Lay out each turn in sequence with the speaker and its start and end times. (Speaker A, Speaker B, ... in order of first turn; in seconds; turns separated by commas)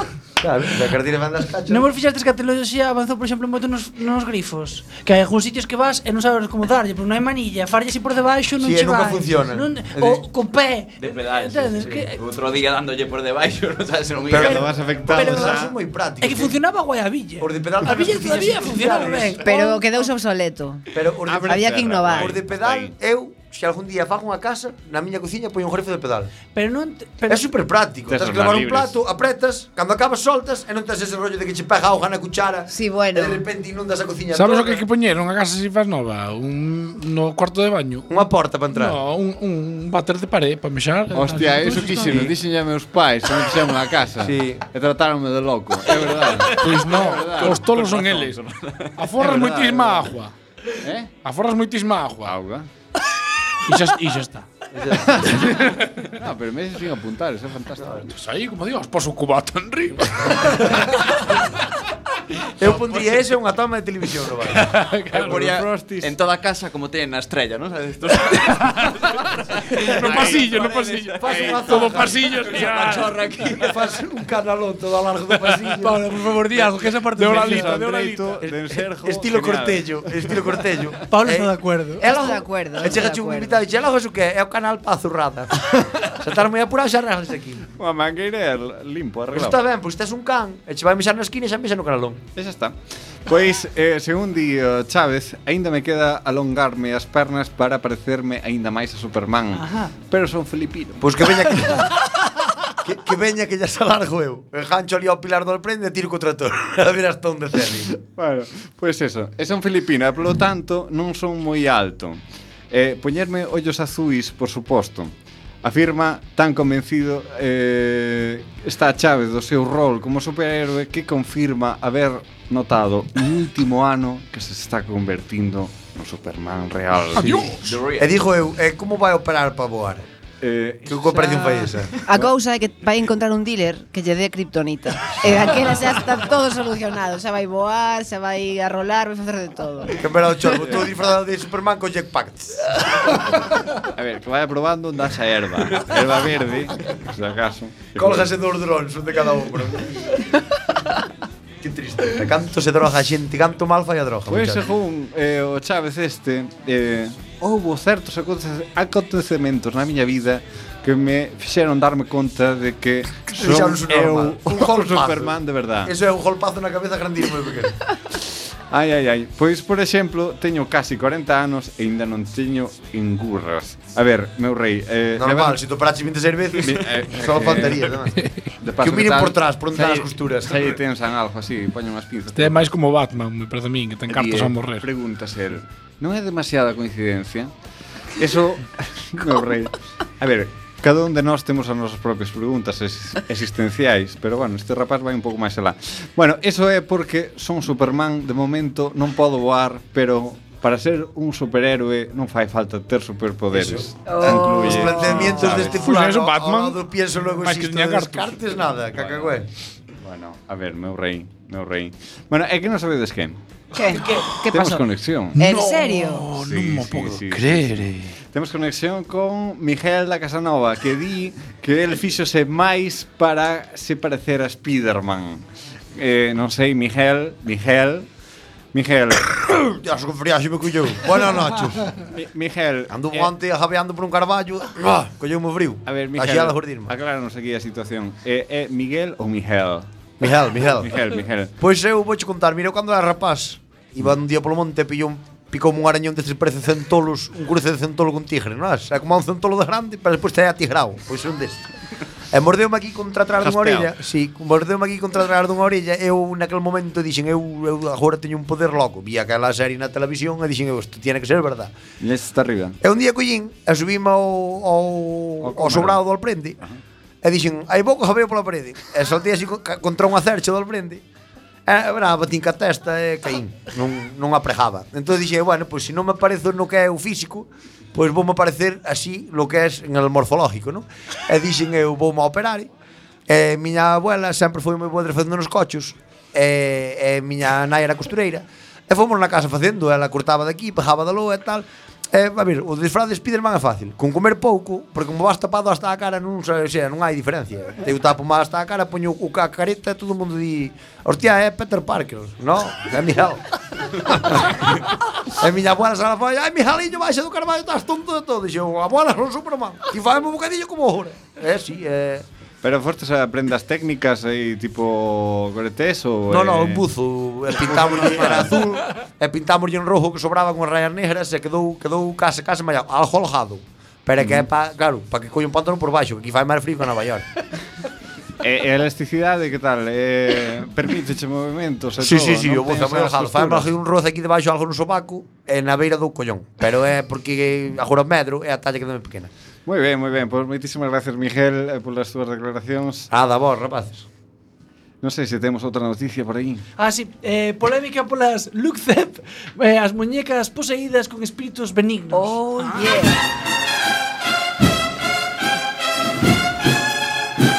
Speaker A: 0.4-1.9, Speaker B: 1.7-12.2, Speaker A: 8.6-10.2, Speaker C: 11.0-14.7, Speaker D: 14.3-15.8, Speaker A: 14.3-16.6, Speaker B: 15.1-15.6, Speaker B: 16.2-20.1, Speaker A: 17.4-19.4, Speaker E: 19.4-22.3, Speaker A: 20.9-26.3, Speaker D: 21.2-22.9, Speaker B: 26.5-27.6, Speaker A: 27.3-34.9, Speaker D: 28.1-29.0, Speaker E: 32.7-33.4, Speaker F: 34.3-38.1, Speaker A: 38.1-39.0, Speaker F: 38.7-42.3, Speaker D: 41.1-50.0, Speaker A: 44.2-44.6, Speaker F: 46.5-48.4, Speaker F: 49.0-50.3, Speaker D: 50.8-51.1, Speaker F: 51.2-52.3, Speaker D: 52.2-52.7, Speaker F: 53.7-54.5, Speaker A: 54.7-55.3, Speaker D: 55.1-58.1, Speaker A: 57.8-58.1, Speaker F: 58.1-60.9, Speaker A: 62.6-64.7, Speaker F: 64.6-65.4, Speaker D: 65.1-66.2, Speaker C: 65.1-73.8, Speaker F: 68.3-69.1, Speaker F: 69.8-73.2, Speaker D: 70.0-70.7, Speaker A: 71.2-72.2, Speaker A: 73.5-76.2, Speaker B: 75.8-78.2, Speaker F: 77.2-78.2, Speaker D: 77.2-80.6, Speaker A: 78.4-87.7, Speaker B: 81.1-82.1, Speaker E: 82.0-83.6, Speaker D: 87.8-89.6, Speaker A: 89.3-92.2, Speaker D: 92.3-101.2, Speaker B: 99.5-99.9, Speaker A: 101.0-102.0, Speaker A: 102.8-108.0, Speaker D: 108.1-127.6, Speaker C: 127.4-128.2, Speaker A: 128.0-130.0, Speaker D: 130.4-132.3, Speaker A: 130.9-131.9, Speaker E: 132.1-140.0, Speaker A: 140.0-143.4, Speaker D: 140.5-140.9, Speaker D: 143.8-148.3, Speaker A: 147.9-150.3, Speaker A: 151.6-154.7, Speaker D: 154.3-165.9, Speaker A: 163.3-167.8, Speaker D: 168.7-175.6, Speaker A: 175.2-178.3, Speaker D: 176.6-178.0, Speaker F: 178.2-178.5, Speaker D: 178.6-182.7, Speaker A: 178.8-180.8, Speaker F: 182.3-184.8, Speaker D: 184.1-187.5, Speaker D: 188.2-205.9, Speaker A: 203.5-209.5, Speaker E: 204.1-205.4, Speaker F: 205.6-206.8, Speaker F: 207.4-208.4, Speaker D: 208.9-209.4, Speaker D: 210.0-213.4, Speaker E: 213.7-216.3, Speaker B: 213.9-214.3, Speaker D: 214.5-215.4, Speaker F: 215.4-218.1, Speaker D: 216.3-225.4, Speaker D: 225.9-228.1, Speaker D: 228.7-229.4, Speaker A: 229.5-231.9, Speaker D: 232.0-233.3, Speaker A: 232.9-236.9, Speaker D: 235.9-241.5, Speaker A: 240.2-241.0, Speaker A: 241.6-251.7, Speaker A: 252.3-261.7, Speaker D: 253.4-253.9, Speaker D: 262.0-262.8, Speaker A: 262.8-266.6, Speaker D: 265.4-266.0, Speaker A: 267.2-271.0, Speaker A: 271.7-282.7, Speaker A: 283.3-312.2, Speaker D: 312.6-316.9, Speaker A: 316.3-327.2, Speaker D: 317.6-318.6, Speaker D: 324.2-324.5, Speaker D: 328.4-333.7, Speaker A: 332.0-339.3, Speaker D: 339.7-343.1, Speaker A: 343.1-344.1, Speaker D: 345.0-346.6, Speaker B: 346.8-353.0, Speaker E: 352.1-353.2